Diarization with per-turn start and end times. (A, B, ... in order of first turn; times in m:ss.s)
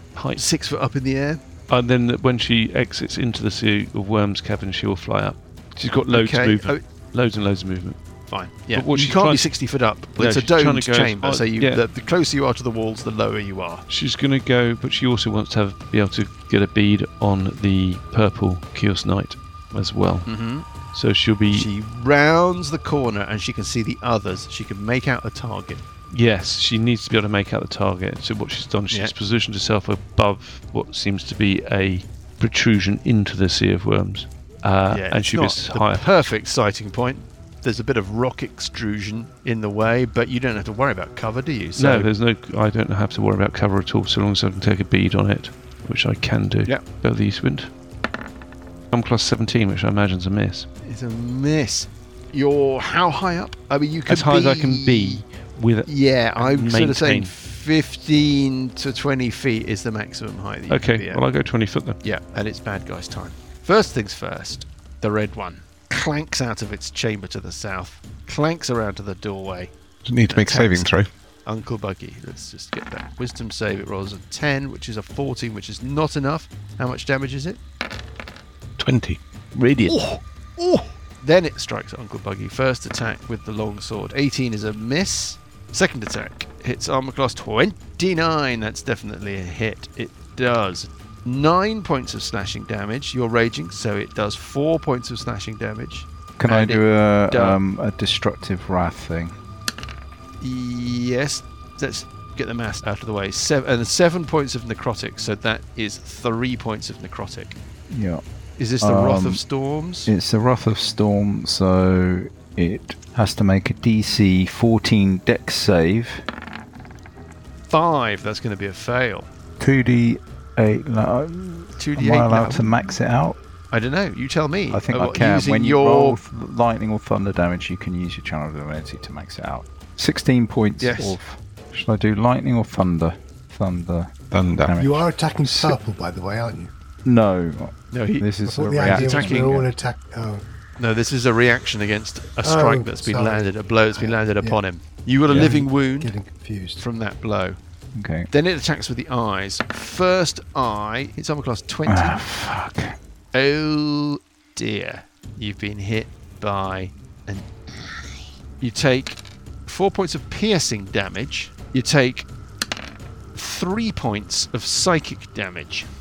0:00.2-0:00.4 A
0:00.3-0:01.4 B
0:01.7-0:08.0 A
0:06.0-0:06.8 B
0:08.3-0:13.9 B
0:08.7-0:11.8 A
0:13.9-0:21.7 A
0:20.2-0:20.7 B
0:21.5-0:25.8 B
0:26.1-0:36.1 A
0:34.9-0:42.1 B
0:41.8-0:47.7 A
0:48.9-0:50.7 A
0:50.8-0:55.2 B
0:54.1-0:57.3 A
0:55.9-1:01.2 B
1:00.7-1:02.0 A
1:02.0-1:09.7 B
1:10.0-1:11.1 C
1:10.3-1:11.0 B
1:11.5-1:17.6 B
1:18.8-1:20.0 C
1:19.9-1:37.6 B
1:36.4-1:39.4 D
1:40.4-1:47.6 B
1:47.9-1:48.2 D
1:48.6-1:50.1 B
1:48.8-1:49.4 D
1:50.1-1:56.2 D
1:57.7-1:59.3 B
1:59.6-2:03.4 D
2:01.8-2:03.0 B
2:03.7-2:06.2 B
2:04.7-2:14.1 D
2:10.8-2:11.2 B
2:14.3-2:14.7 C
2:14.6-2:15.8 D
2:14.8-2:16.7 E
2:17.0-2:19.7 D
2:17.9-2:18.3 B
2:18.5-2:20.4 E
2:18.8-2:19.6 B
2:20.8-2:26.1 B
2:22.4-2:24.6 E
2:25.3-2:26.8 E
2:26.8-2:27.6 B
2:28.0-2:28.3 D
2:28.3-2:32.2 B
2:31.9-2:33.0 D
2:33.3-2:37.5 B
2:38.6-2:42.3 B
2:43.4-2:45.9 B